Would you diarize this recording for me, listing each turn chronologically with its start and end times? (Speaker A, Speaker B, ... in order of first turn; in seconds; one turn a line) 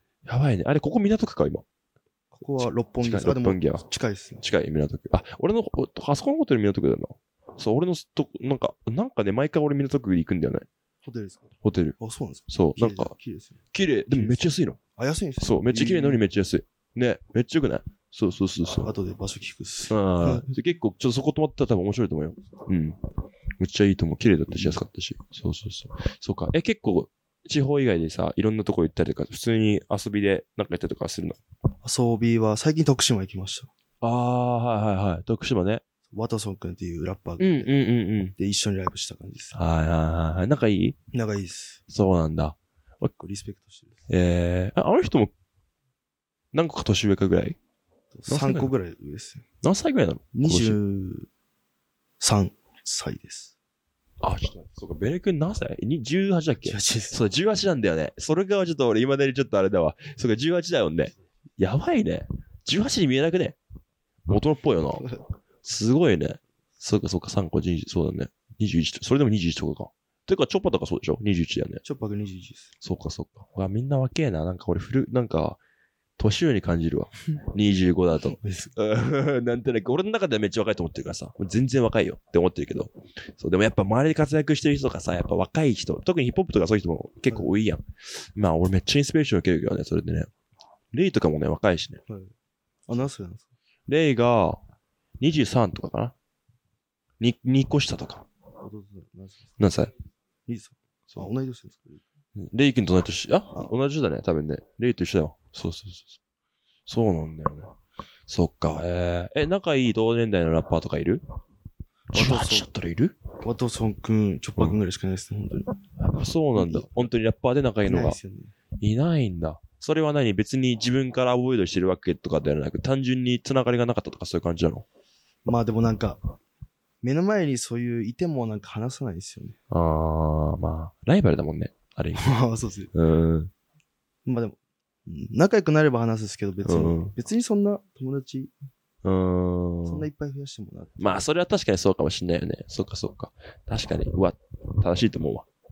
Speaker A: 0.2-1.6
Speaker B: 2.3-4.4
Speaker A: 2.6-3.8
Speaker A: 4.4-10.7
Speaker B: 11.0-13.6
Speaker A: 11.6-11.9
Speaker A: 12.5-13.1
Speaker A: 13.7-14.8
Speaker B: 14.1-16.2
Speaker A: 15.4-18.9
Speaker B: 18.8-20.5
Speaker A: 19.9-23.0
Speaker A: 23.6-31.4
Speaker B: 24.5-24.8
Speaker B: 31.8-33.7
Speaker A: 34.0-35.8
Speaker B: 36.1-37.7
Speaker A: 37.4-38.3
Speaker B: 38.4-39.6
Speaker A: 39.5-41.0
Speaker B: 41.1-41.8
Speaker A: 41.9-43.1
Speaker B: 43.1-44.1
Speaker A: 44.1-45.3
Speaker A: 46.5-47.6
Speaker B: 48.1-49.4
Speaker A: 48.3-48.7
Speaker A: 49.6-50.8
Speaker B: 50.3-51.3
Speaker B: 52.2-53.5
Speaker A: 54.2-63.6
Speaker B: 56.6-57.2
Speaker A: 64.3-71.8
Speaker B: 71.8-72.7
Speaker A: 72.8-75.6
Speaker A: 76.2-90.3
Speaker B: 78.3-78.7
Speaker A: 90.9-92.0
Speaker B: 92.1-92.3
Speaker B: 92.9-93.5
Speaker A: 93.9-94.6
Speaker A: 95.2-96.1
Speaker A: 97.2-98.3
Speaker B: 98.6-99.6
Speaker A: 99.6-99.9
Speaker B: 100.5-102.0
Speaker A: 102.3-106.2
Speaker A: 106.9-107.7
Speaker A: 108.3-111.2
Speaker B: 112.1-112.7
Speaker A: 112.1-113.2
Speaker B: 113.4-115.7
Speaker A: 116.0-118.2
Speaker B: 116.5-116.9
Speaker B: 117.8-118.5
Speaker A: 118.8-124.8
Speaker B: 125.4-126.2
Speaker B: 127.0-129.6
Speaker A: 129.7-132.3
Speaker B: 132.1-132.9
Speaker A: 132.9-133.5
Speaker B: 134.2-138.5
Speaker A: 136.6-137.1
Speaker A: 139.0-140.1
Speaker B: 139.8-141.2
Speaker A: 141.0-145.5